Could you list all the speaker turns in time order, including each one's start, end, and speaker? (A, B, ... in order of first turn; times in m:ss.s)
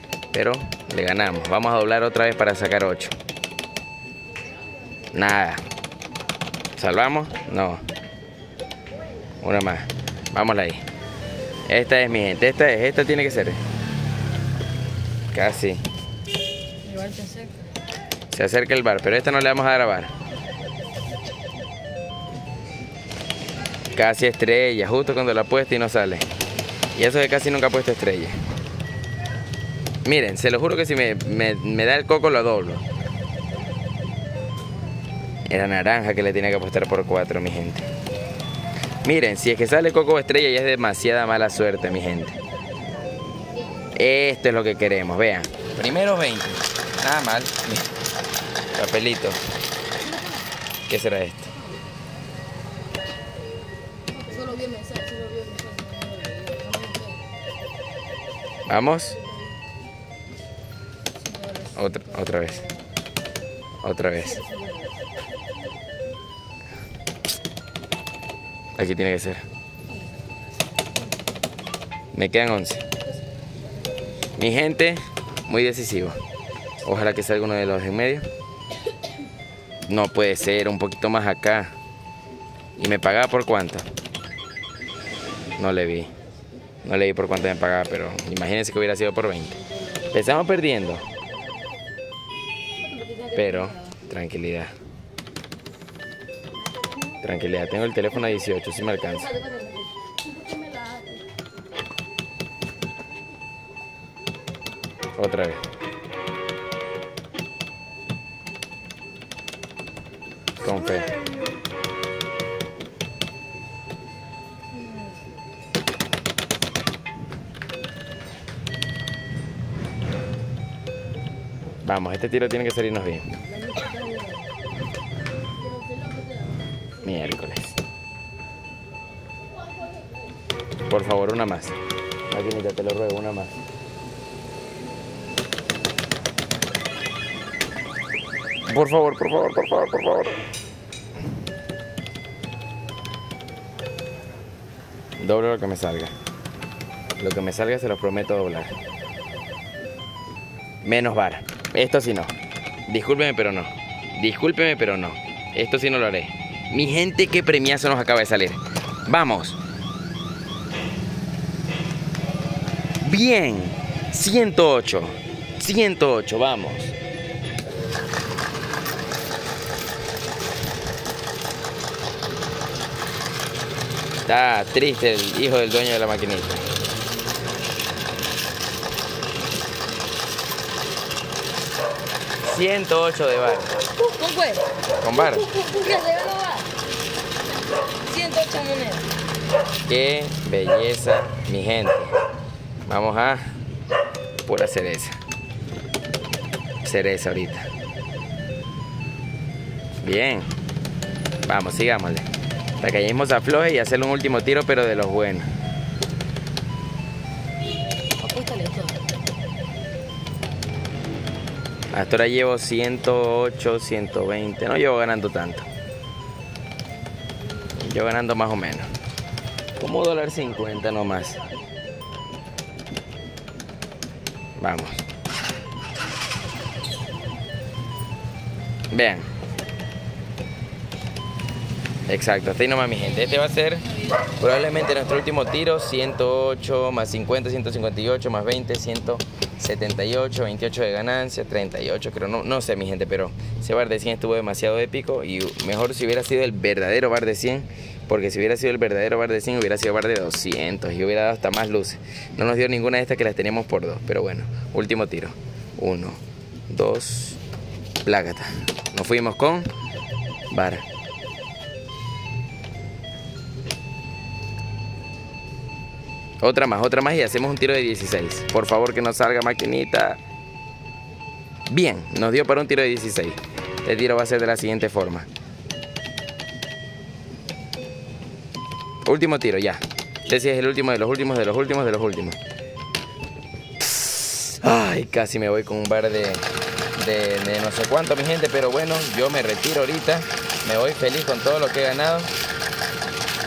0:00.3-0:03.1 A
0:05.1-0:05.6 A
0:06.8-0:07.8 A
0:09.4-0:10.8 A
0:11.7-0:13.6 A
0:15.3-0:15.8 A
0:16.8-0:17.6 B
0:18.3-0:20.1 A
0:23.9-0:26.2 A
0:26.9-0:28.4 A
0:30.0-0:32.8 A
0:35.5-0:37.9 A
0:39.0-0:42.4 A
0:43.9-0:47.9 A
0:48.7-0:49.4 A
0:50.9-0:51.5 A
0:54.2-0:57.2 B
0:58.7-0:59.2 A
1:01.2-1:01.7 B
1:01.7-1:02.6 A
1:03.8-1:04.4 A
1:04.4-1:04.9 B
1:08.8-1:09.4 A
1:12.1-1:12.8 A
1:14.3-1:16.2 A
1:16.8-1:18.2 A
1:19.9-1:21.7 A
1:22.8-1:23.8 A
1:25.6-1:26.1 A
1:26.8-1:31.0 A
1:33.0-1:33.3 B
1:33.3-1:34.7 A
1:37.2-1:39.4 A
1:40.5-1:41.2 B
1:45.2-1:45.6 A
1:50.6-1:51.2 A
2:01.8-2:03.3 A
2:03.8-2:04.3 B
2:07.0-2:07.8 A
2:10.9-2:11.8 A
2:12.3-2:13.6 A
2:18.6-2:20.4 A
2:25.2-2:26.1 A
2:27.2-2:28.7 A
2:30.8-2:32.3 A
2:32.9-2:39.6 A
2:43.0-2:47.0 A
2:54.2-2:56.6 A
3:02.4-3:03.7 A
3:04.0-3:04.7 B
3:05.0-3:05.5 A
3:05.5-3:06.7 B
3:08.0-3:09.1 B
3:09.8-3:12.2 A
3:12.8-3:13.6 A
3:14.4-3:15.2 A
3:16.8-3:17.7 A
3:20.0-3:20.5 A
3:21.4-3:22.2 A
3:22.8-3:25.5 A
3:28.2-3:29.0 B
3:31.9-3:35.7 A
3:37.7-3:38.9 A
3:39.8-3:41.4 A
3:44.6-3:45.0 A
3:48.9-3:49.3 A
3:52.1-4:17.4 A
4:18.0-4:19.7 A
4:20.5-4:20.8 A
4:26.4-4:30.2 A
4:31.7-4:35.3 A
4:39.0-4:42.4 A
4:43.8-4:52.3 A